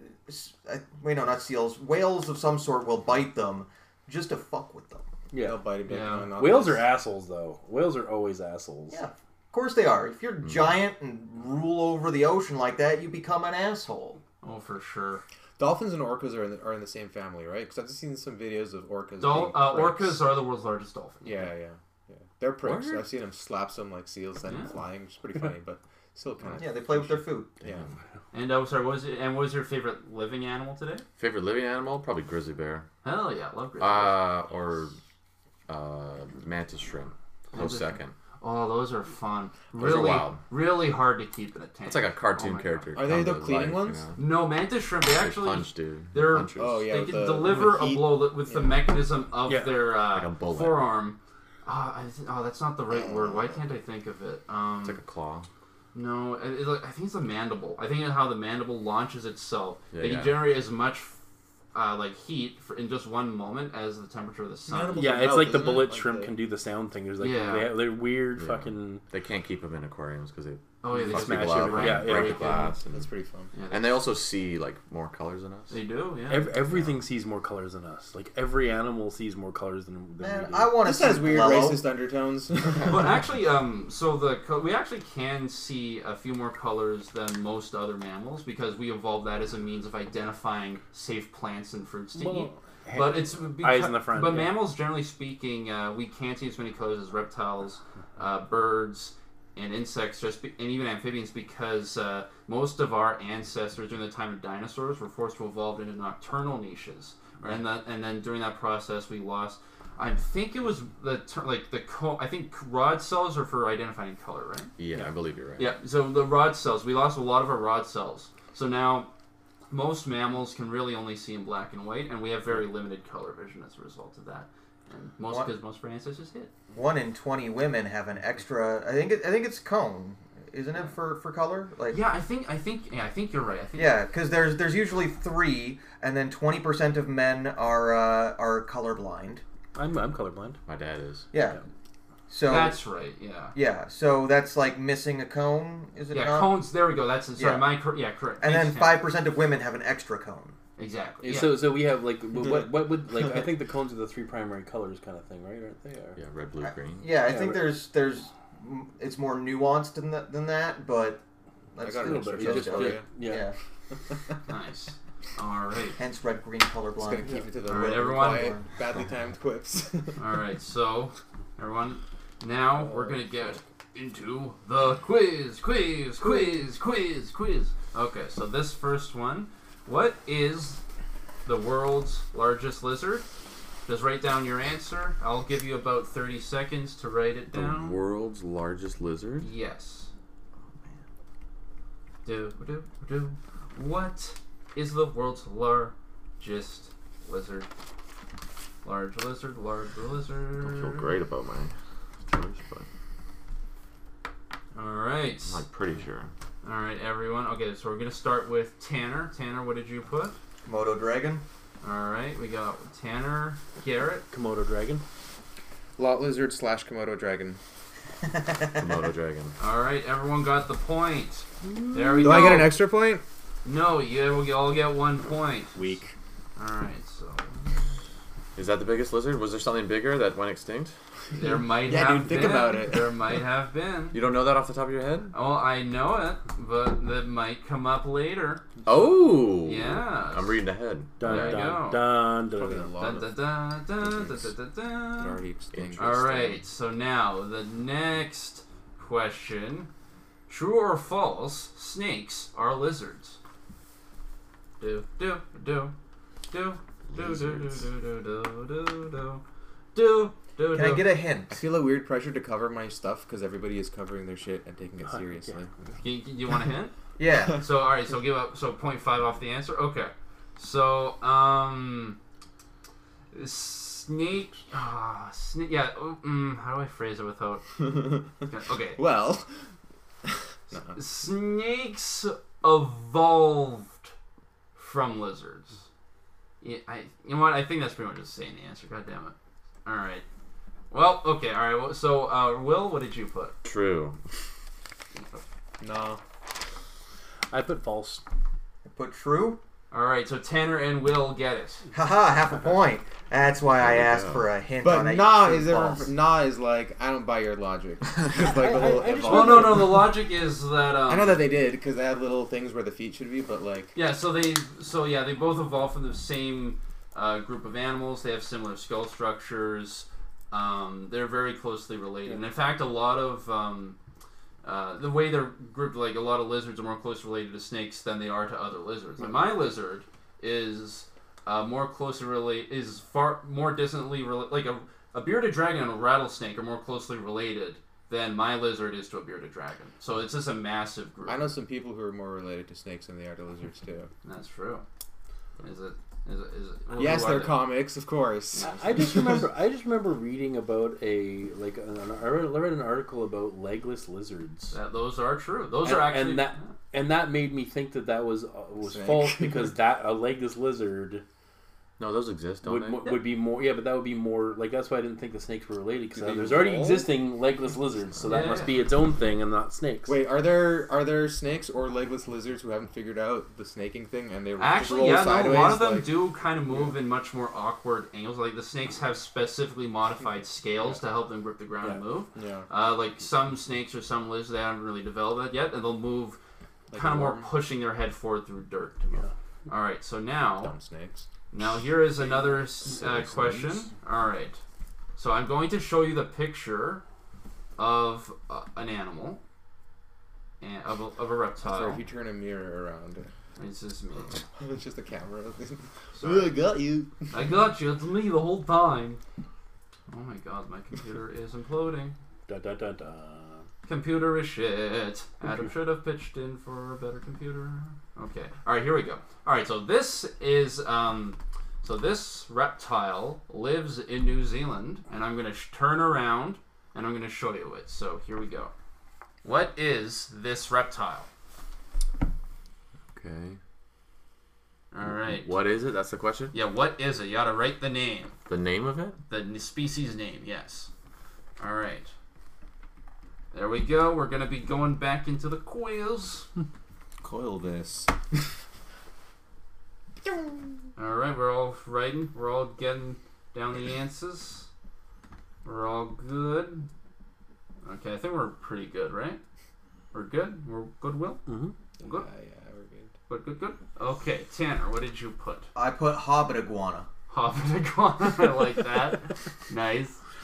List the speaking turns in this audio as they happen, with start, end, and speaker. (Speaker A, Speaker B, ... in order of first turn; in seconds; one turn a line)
Speaker A: 0.2-5.0
Speaker B: 5.3-5.7
Speaker C: 5.4-6.9
Speaker D: 5.9-6.3
Speaker B: 6.3-9.0
Speaker A: 8.9-14.2
Speaker D: 14.4-15.2
Speaker C: 15.6-20.2
Speaker D: 19.2-21.5
Speaker C: 21.2-27.9
Speaker E: 22.6-23.1
Speaker D: 24.5-24.8
Speaker A: 26.6-27.5
Speaker E: 27.6-27.9
Speaker D: 28.3-31.0
Speaker E: 31.2-32.9
Speaker D: 33.0-34.2
Speaker E: 33.8-34.9
Speaker E: 35.7-38.1
Speaker D: 37.5-42.9
Speaker E: 39.7-40.4
Speaker E: 41.9-44.2
Speaker C: 43.0-44.0
Speaker D: 44.1-55.0
Speaker E: 45.1-46.8
Speaker C: 46.5-48.9
Speaker B: 49.5-49.9
Speaker E: 50.1-50.8
Speaker E: 54.8-55.5
Speaker D: 55.9-61.2
Speaker E: 59.9-60.4
Speaker D: 61.7-65.2
Speaker C: 64.7-66.3
Speaker B: 65.0-69.0
Speaker D: 67.2-67.8
Speaker E: 68.3-73.0
Speaker D: 70.8-72.8
Speaker B: 70.9-72.7
Speaker C: 72.9-73.5
Speaker D: 73.5-74.1
Speaker E: 73.7-75.8
Speaker D: 75.7-76.5
Speaker B: 76.3-80.8
Speaker E: 76.7-77.0
Speaker A: 80.2-81.8
Speaker C: 80.8-83.2
Speaker D: 82.8-114.8
Speaker B: 92.1-94.6
Speaker E: 114.8-115.7
Speaker D: 115.6-119.1
Speaker D: 119.7-126.5
Speaker A: 126.7-132.0
Speaker D: 131.9-134.0
Speaker A: 133.8-139.4
Speaker B: 139.7-140.6
Speaker E: 140.7-141.3
Speaker A: 141.3-141.6
Speaker A: 142.3-142.8
Speaker D: 142.5-143.5
Speaker A: 143.5-146.5
Speaker D: 146.1-149.1
Speaker A: 147.4-147.7
Speaker A: 148.4-150.6
Speaker D: 150.8-151.6
Speaker B: 151.2-156.2
Speaker E: 156.2-157.1
Speaker A: 156.6-161.2
Speaker B: 157.2-157.7
Speaker A: 161.7-163.5
Speaker C: 161.8-163.1
Speaker B: 162.0-163.5
Speaker D: 164.5-166.0
Speaker A: 166.0-168.7
Speaker C: 167.0-170.2
Speaker D: 167.7-168.6
Speaker D: 170.2-180.8
Speaker D: 181.4-183.2
Speaker D: 183.9-187.9
Speaker E: 187.5-189.5
Speaker D: 189.4-190.1
Speaker D: 192.2-197.7
Speaker D: 198.8-201.1
Speaker E: 200.6-201.7
Speaker E: 202.2-202.9
Speaker D: 204.7-205.6
Speaker E: 205.5-206.3
Speaker D: 206.6-210.4
Speaker A: 210.7-211.4
Speaker D: 211.8-214.2
Speaker B: 214.3-215.0
Speaker C: 216.0-217.6
Speaker A: 218.2-218.9
Speaker E: 218.8-219.6
Speaker D: 219.6-222.8
Speaker B: 221.6-222.7
Speaker C: 222.2-223.2
Speaker D: 223.6-225.8
Speaker B: 225.8-226.1
Speaker D: 226.6-227.8
Speaker E: 228.6-230.9
Speaker D: 231.3-234.2
Speaker C: 231.4-233.2
Speaker E: 234.1-235.3
Speaker D: 235.3-238.7
Speaker E: 238.8-241.8
Speaker D: 239.6-240.6
Speaker B: 241.2-242.9
Speaker D: 241.2-242.1
Speaker C: 242.4-243.3
Speaker D: 243.0-245.4
Speaker C: 244.0-244.4
Speaker C: 245.1-246.6
Speaker E: 245.7-246.0
Speaker D: 246.0-249.9
Speaker D: 250.5-253.4
Speaker D: 254.8-255.9
Speaker D: 256.5-259.4
Speaker E: 257.1-257.7
Speaker D: 259.9-261.1
Speaker A: 260.7-261.6
Speaker C: 261.5-265.7
Speaker B: 265.0-265.6
Speaker D: 266.0-266.9
Speaker A: 267.2-267.6
Speaker D: 267.6-272.2
Speaker D: 273.3-279.0
Speaker C: 277.8-278.2
Speaker C: 278.9-279.6
Speaker C: 280.2-281.0
Speaker D: 280.9-284.1
Speaker D: 284.8-285.8
Speaker D: 286.6-289.3
Speaker D: 289.8-290.2
Speaker D: 290.9-293.6
Speaker E: 293.6-294.2
Speaker D: 295.1-295.4
Speaker C: 295.8-296.2
Speaker B: 297.5-298.2
Speaker A: 298.8-299.6
Speaker D: 299.9-301.8
Speaker A: 301.9-306.1
Speaker E: 303.8-304.4
Speaker C: 304.8-310.1
Speaker B: 308.3-310.1
Speaker D: 309.2-311.4
Speaker C: 311.1-313.9
Speaker D: 313.9-324.0
Speaker D: 324.6-341.6
Speaker C: 341.3-344.1
Speaker D: 344.2-344.8
Speaker D: 345.6-347.7
Speaker C: 346.9-349.4
Speaker D: 348.5-349.1
Speaker B: 348.6-354.8
Speaker D: 354.7-356.7
Speaker B: 355.8-361.2
Speaker C: 358.8-359.7
Speaker E: 362.0-363.1
Speaker B: 362.6-370.1
Speaker C: 366.1-367.1
Speaker D: 368.2-368.8
Speaker C: 370.1-376.1
Speaker D: 374.6-386.4
Speaker C: 382.3-382.7
Speaker C: 386.9-387.5
Speaker D: 386.9-390.7
Speaker C: 390.6-391.3
Speaker D: 391.5-394.6
Speaker C: 392.9-393.3
Speaker D: 395.1-397.0
Speaker D: 397.8-399.4
Speaker D: 400.6-402.0
Speaker C: 401.6-403.3
Speaker D: 403.6-404.4
Speaker C: 404.6-407.3
Speaker D: 406.1-406.6
Speaker D: 407.3-409.2
Speaker D: 410.1-412.1
Speaker B: 412.5-413.6
Speaker D: 413.9-428.7
Speaker D: 429.4-431.3
Speaker E: 433.1-433.6
Speaker D: 434.9-435.6
Speaker E: 435.0-436.5
Speaker D: 436.5-438.4
Speaker E: 438.5-439.2
Speaker D: 439.3-440.9
Speaker D: 441.6-442.1
Speaker D: 443.5-446.5
Speaker C: 447.2-448.1
Speaker D: 450.9-454.7
Speaker D: 455.6-456.9
Speaker D: 457.8-459.4
Speaker D: 460.1-461.4
Speaker B: 461.4-461.8
Speaker C: 462.0-463.1
Speaker D: 462.0-462.3
Speaker D: 463.3-465.7
Speaker A: 465.7-467.1
Speaker D: 467.3-470.2